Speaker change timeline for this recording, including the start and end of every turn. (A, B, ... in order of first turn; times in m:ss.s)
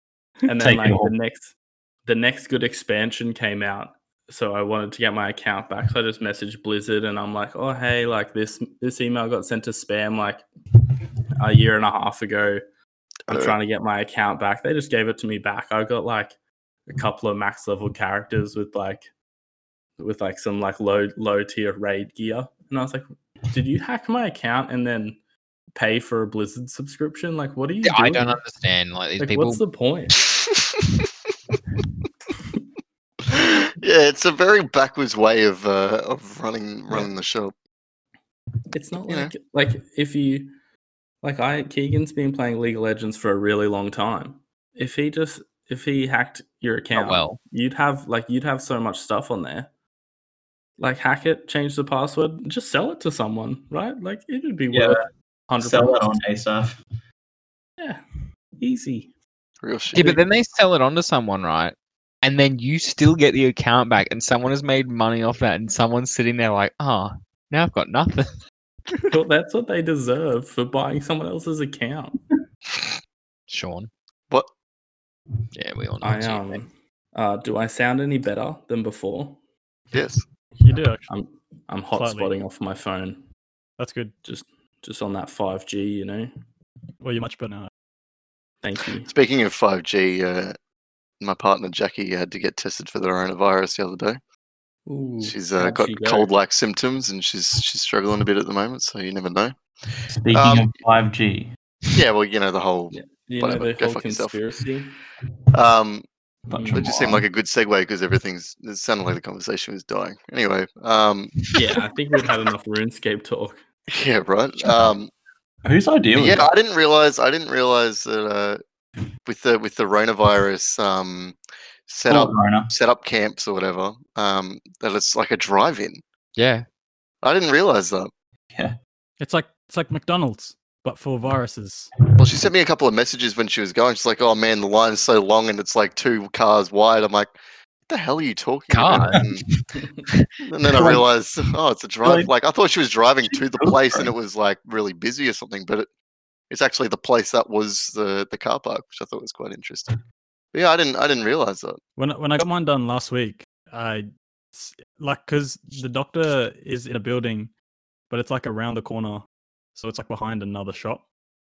0:00.4-0:10.4 A
0:00.6-0:01.1 B
0:11.4-0:12.6 A
0:13.3-0:13.6 C
0:13.3-0:16.3 A
0:16.9-0:19.1 A
0:20.0-0:25.2 A
0:25.7-0:28.4 A
0:27.8-0:29.6 D
0:29.2-0:30.2 A
0:33.3-0:37.5 C
0:38.7-0:40.5 A
0:41.2-0:49.7 A
0:46.9-0:47.4 D
0:50.8-0:56.2 A
0:54.7-0:55.0 B
0:55.6-0:56.8 B
0:58.6-0:59.1 A
0:59.6-1:00.2 C
0:59.9-1:08.3 D
1:09.1-1:12.2 A
1:13.5-1:13.9 D
1:15.6-1:16.6 D
1:16.0-1:19.4 A
1:19.9-1:20.2 C
1:20.6-1:21.1 E
1:21.1-1:23.3 A
1:21.9-1:22.3 E
1:23.8-1:24.1 E
1:24.2-1:26.3 A
1:27.0-1:27.7 E
1:28.6-1:29.1 A
1:29.0-1:30.6 C
1:31.2-1:34.2 C
1:34.9-1:36.3 A
1:35.2-1:40.7 C
1:40.1-1:41.5 B
1:41.9-1:44.4 C
1:42.9-1:44.9 A
1:45.5-1:46.1 C
1:46.5-1:47.2 B
1:46.5-1:46.9 A
1:46.7-1:51.4 C
1:51.5-1:53.6 A
1:53.9-1:55.1 C
1:55.6-1:56.5 B
1:56.1-1:58.6 C
1:59.2-2:06.0 C
2:02.1-2:02.7 B
2:06.4-2:06.6 D
2:07.2-2:08.1 C
2:09.2-2:11.9 E
2:12.1-2:17.3 C
2:17.9-2:19.4 C
2:18.7-2:19.2 D
2:20.4-2:25.9 C
2:20.7-2:21.0 B
2:22.0-2:22.3 B
2:23.3-2:24.1 B
2:26.5-2:30.0 C
2:30.5-2:31.8 C
2:32.0-2:37.5 E
2:38.1-2:41.0 E